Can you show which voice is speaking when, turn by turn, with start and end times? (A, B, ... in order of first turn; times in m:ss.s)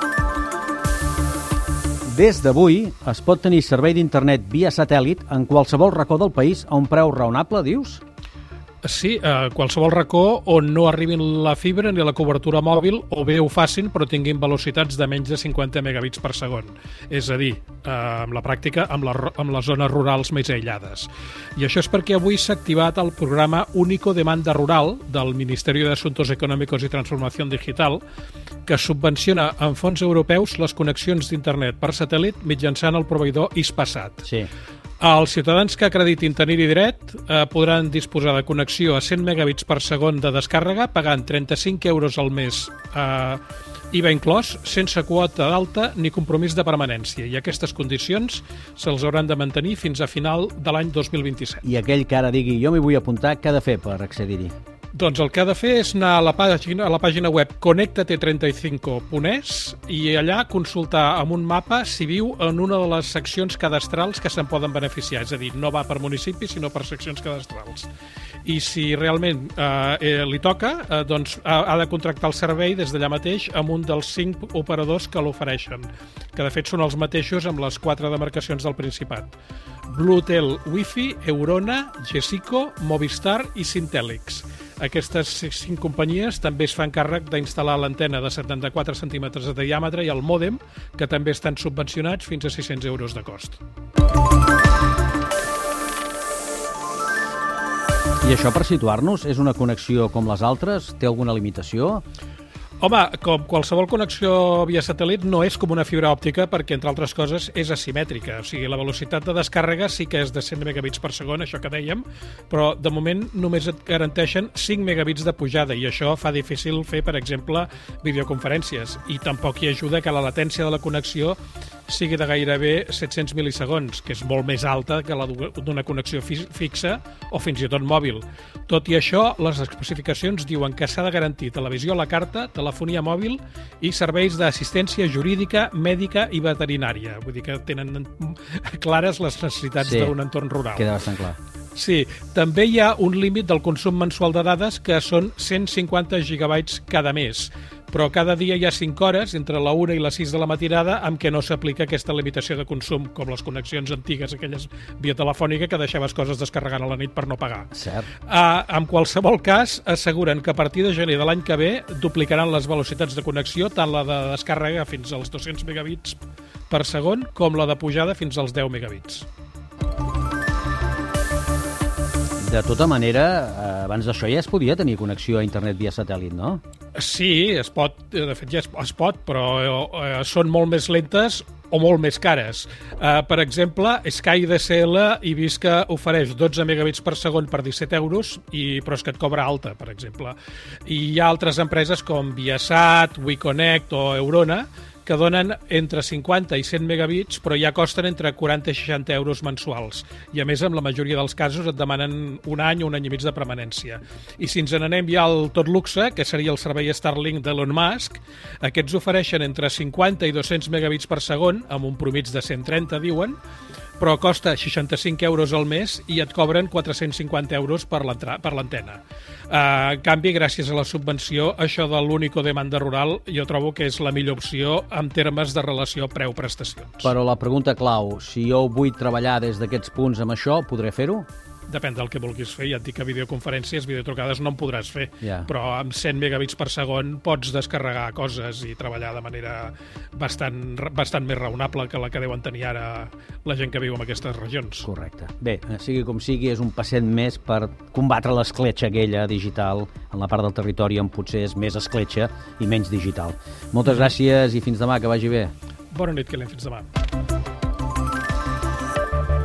0:02.1-0:08.0 A
0:08.8-0:28.0 B
0:28.7-0:34.3 B
0:35.0-0:43.4 B
0:43.9-0:51.6 B
0:51.6-0:54.5 A
0:54.9-1:07.9 B
1:08.4-1:19.4 B
1:19.9-1:33.6 B
1:38.2-1:42.0 A
1:42.8-2:20.9 B
2:19.8-2:20.1 A
2:20.8-2:21.4 A
2:21.8-2:37.7 B
2:37.7-2:38.1 A
2:38.3-2:46.2 B
2:46.7-2:49.3 B
2:52.4-2:56.6 A
2:57.0-3:33.4 B
3:34.0-3:47.1 B
3:47.0-3:51.3 A
3:51.7-4:04.9 B
3:55.2-3:55.5 A
4:04.8-4:15.5 A
4:15.9-4:16.9 B